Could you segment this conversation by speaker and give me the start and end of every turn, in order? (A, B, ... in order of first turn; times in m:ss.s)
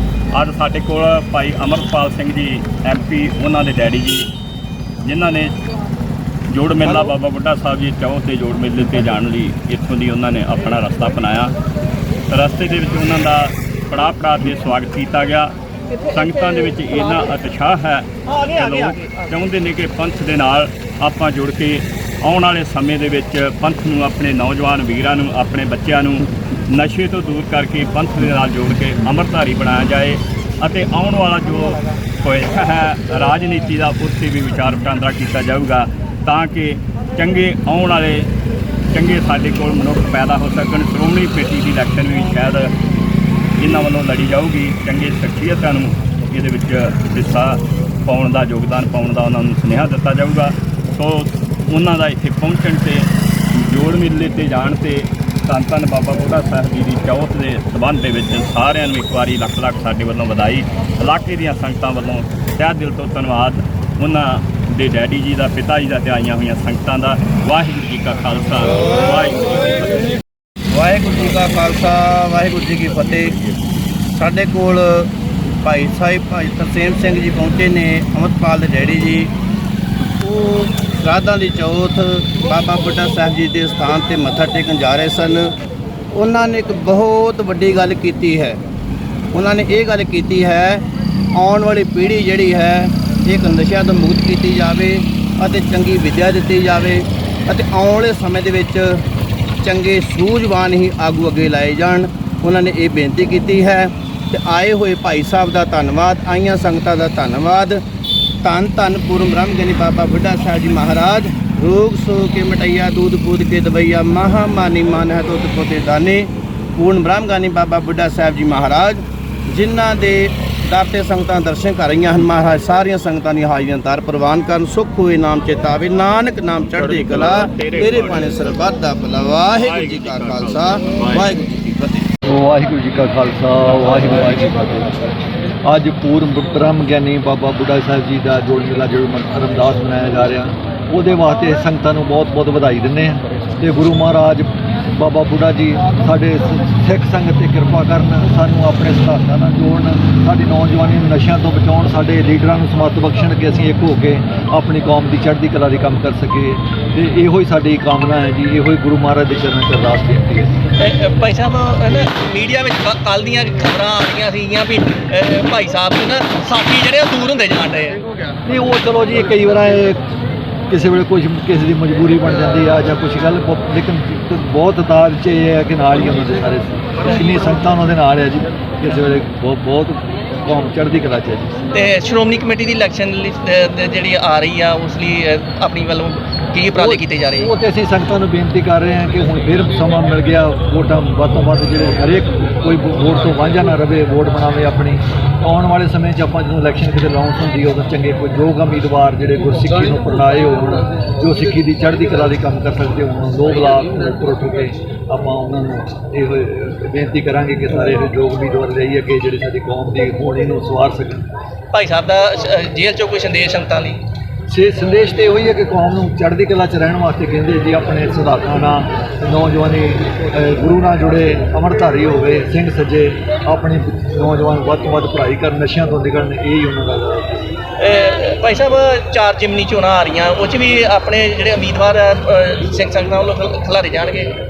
0:00.3-0:04.3 A
0:05.0-0:05.5 A
0:06.5-0:11.5 A
0:12.3-0:15.5 A
0:16.1-0:38.3 A
0:18.7-0:19.0 B
0:38.9-0:42.7 A
0:43.6-1:10.1 A
1:10.7-1:13.4 C
1:14.1-1:19.3 C
1:20.2-1:25.5 C
1:26.1-1:28.6 C
1:29.3-1:39.0 C
1:39.6-1:47.8 C
1:48.4-2:12.1 C
2:06.6-2:08.5 A
2:09.6-2:11.3 A
2:12.3-2:15.0 D
2:15.6-2:40.5 D
2:40.8-2:48.0 B
2:48.4-2:50.0 D
2:50.7-3:01.6 D
3:01.7-3:07.5 B
3:06.8-3:31.3 D
3:31.7-3:34.0 B
3:34.5-3:47.5 D
3:47.8-3:54.3 B